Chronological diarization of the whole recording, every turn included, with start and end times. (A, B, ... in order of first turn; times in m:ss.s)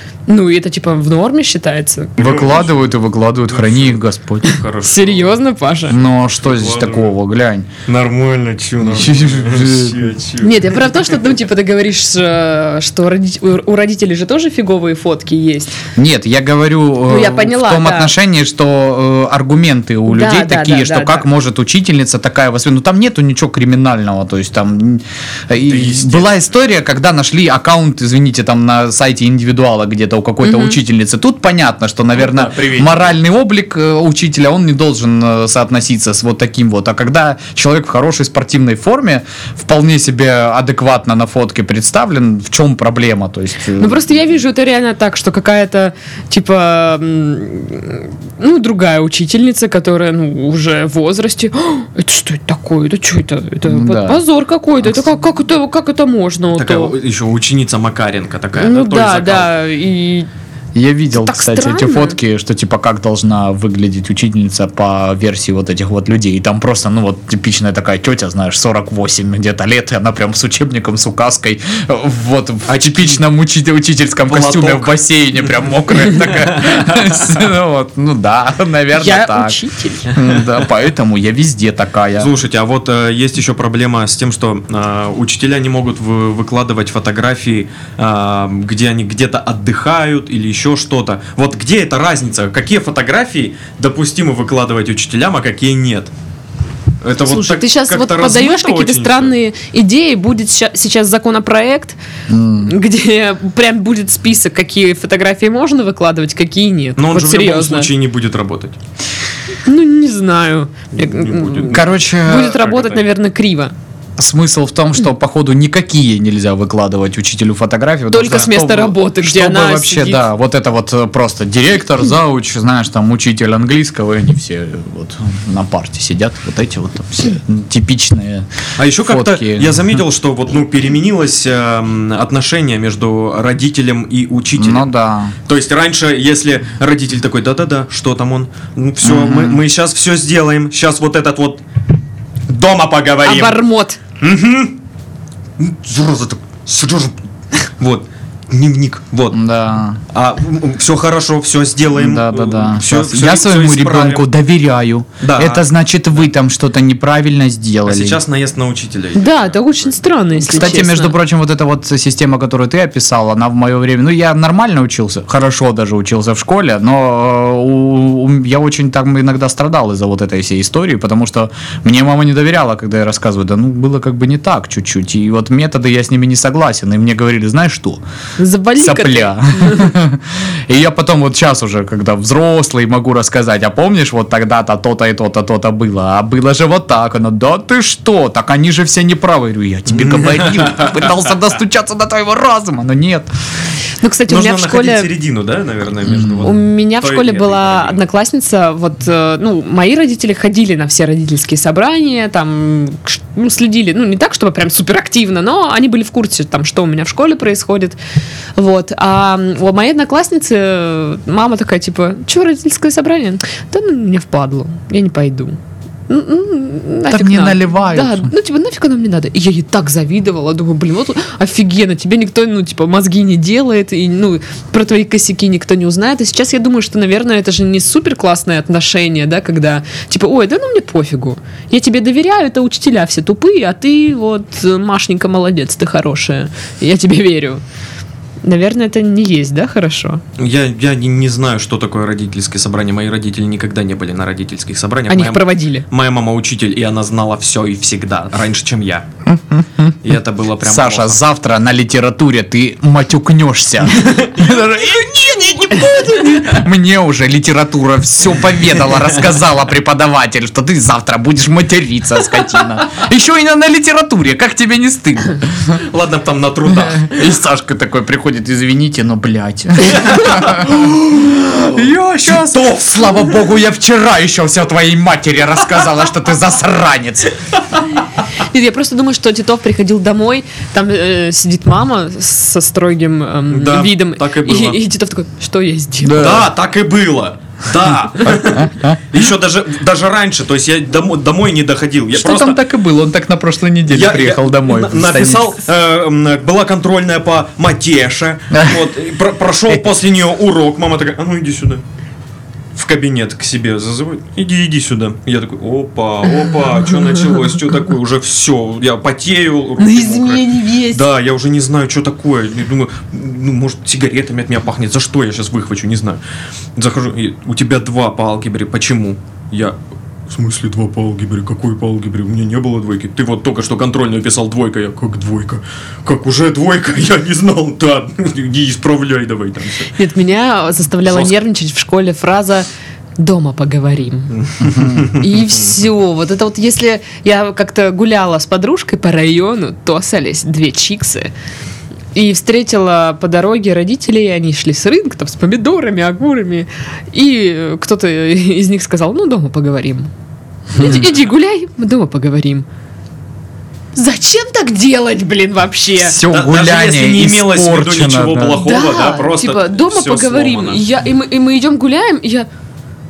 0:00.3-0:02.2 A
0:02.2-0:04.5 B
0:02.2-0:02.9 C
0:03.5-0:05.4 C
0:04.5-0:06.0 A
0:05.9-0:07.7 B
0:06.0-0:07.1 C
0:07.8-0:11.0 C
0:08.8-0:10.1 B
0:10.4-0:15.7 A
0:15.9-0:44.2 B
0:17.1-0:18.1 A
0:20.1-0:21.2 A
0:25.6-0:26.4 C
0:30.4-0:30.8 A
0:32.1-0:33.1 C
0:43.8-0:56.9 A
0:53.6-0:54.2 B
0:56.5-0:59.5 C
0:58.6-1:00.3 A
1:00.7-1:22.3 B
1:01.1-1:02.2 A
1:12.7-1:13.2 C
1:14.2-1:15.0 C
1:16.1-1:17.1 C
1:18.9-1:20.1 A
1:22.2-1:36.1 C
1:37.0-1:39.3 C
1:37.2-1:42.0 A
1:42.3-1:42.7 B
1:42.6-1:47.9 A
1:47.0-1:48.8 C
1:49.6-1:53.7 A
1:51.0-1:53.0 C
1:51.7-1:52.6 B
1:54.2-2:10.0 B
1:58.1-2:00.3 A
2:08.8-2:14.9 C
2:14.6-2:15.3 B
2:15.4-2:21.6 C
2:19.0-2:19.6 B
2:22.5-2:23.6 C
2:23.2-2:24.0 A
2:24.2-2:24.8 C
2:25.6-2:27.2 C
2:27.8-2:29.4 C
2:29.3-2:30.0 B
2:30.1-2:34.3 C
2:31.9-2:38.2 B
2:35.2-2:35.6 C
2:37.8-2:40.0 C
2:39.1-2:41.2 A
2:40.5-2:58.0 B
2:58.4-3:00.0 A
2:58.8-3:13.3 B
3:09.9-3:11.1 C
3:14.0-3:15.1 A
3:14.3-3:18.0 C
3:16.1-3:16.5 B
3:16.4-3:28.0 A
3:28.6-3:57.6 A
3:37.1-3:38.3 B
3:58.4-4:00.2 A
4:00.4-4:09.1 C
4:05.1-4:05.8 A
4:09.2-4:10.0 B
4:10.0-4:11.2 C
4:10.6-4:25.8 B
4:13.9-4:14.6 C
4:25.8-4:27.1 C
4:26.8-4:37.4 B
4:29.9-4:32.6 C
4:38.3-4:46.4 A
4:43.5-4:44.8 C
4:46.0-4:46.5 B
4:46.1-4:52.6 C
4:48.2-4:49.0 B
4:52.1-4:55.6 B
4:53.9-5:01.8 C
4:58.5-4:58.9 B
5:02.8-5:16.2 C
5:09.8-5:11.0 A
5:16.8-5:19.8 C
5:20.3-5:30.0 C
5:29.9-5:32.7 A
5:31.1-5:31.3 C
5:33.2-5:34.4 A
5:34.4-5:35.3 C
5:34.6-5:35.1 B
5:35.1-5:41.3 A
5:42.1-5:50.1 A
5:50.7-5:51.0 B
5:50.7-5:52.6 A
5:54.0-5:56.2 A
5:56.0-5:58.7 B
5:56.3-6:00.8 C
5:58.6-6:02.5 A